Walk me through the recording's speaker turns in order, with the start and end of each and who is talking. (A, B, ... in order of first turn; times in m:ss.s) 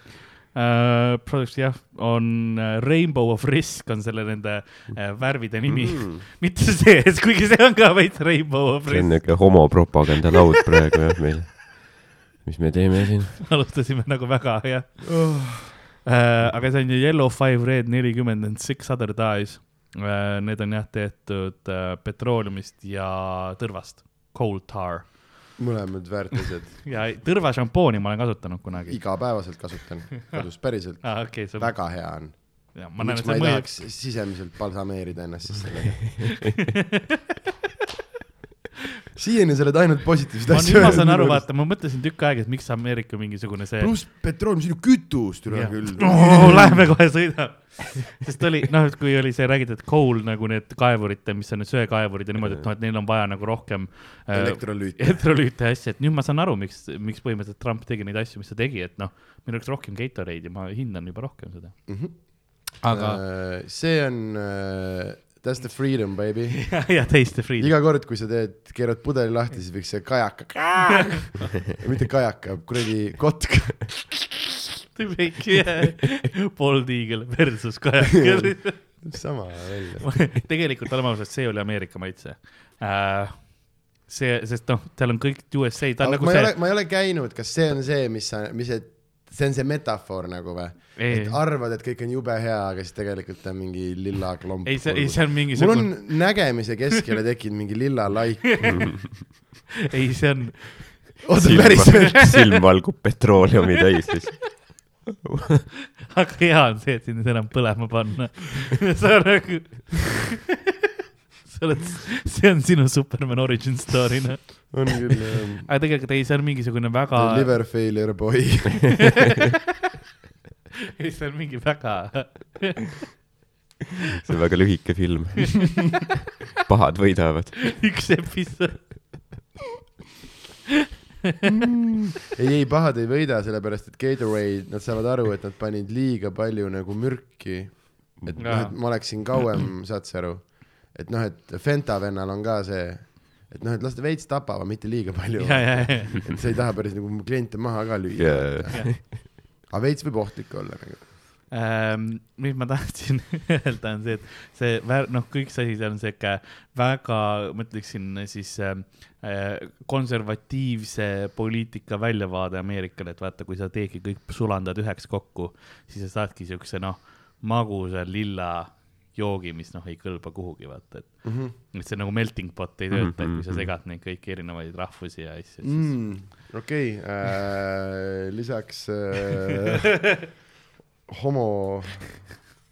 0:00.5-0:09.7 A
0:05.7-0:06.2 B
0:08.9-0:13.4 B
0:13.4-0:15.4 A
0:15.1-0:15.9 C
0:16.0-0:25.3 A
0:25.6-0:26.8 C
0:26.8-0:29.2 A
0:28.9-0:36.4 C
0:31.0-0:31.7 A
0:32.7-0:33.7 A
0:36.2-0:37.2 A
0:39.2-0:41.5 C
0:40.5-0:43.9 A
0:40.8-0:41.0 B
0:43.8-0:46.9 C
0:45.5-1:01.9 A
0:54.3-0:55.2 C
1:01.9-1:06.9 C
1:02.8-1:03.2 A
1:06.6-1:07.7 A
1:07.6-1:14.2 C
1:15.0-1:19.1 A
1:18.2-1:20.3 C
1:20.0-1:26.5 A
1:26.0-1:39.1 C
1:31.0-1:31.4 A
1:34.6-1:36.5 A
1:38.4-1:39.0 A
1:38.7-1:38.9 B
1:39.8-1:42.4 A
1:41.2-1:42.4 C
1:41.4-1:45.6 B
1:46.1-1:50.5 A
1:51.4-1:55.1 A
1:54.7-1:55.7 C
1:55.7-1:57.6 A
1:57.1-1:59.2 C
2:01.0-2:03.1 A
2:04.2-2:06.0 B
2:06.6-2:08.1 B
2:07.7-2:08.9 A
2:11.4-2:31.1 C
2:18.4-2:19.2 A
2:25.4-2:26.3 A
2:28.2-2:29.1 B
2:31.5-2:56.3 A
2:51.2-2:51.5 C
2:52.9-2:53.7 B
2:55.6-2:59.9 C
3:01.1-3:02.3 C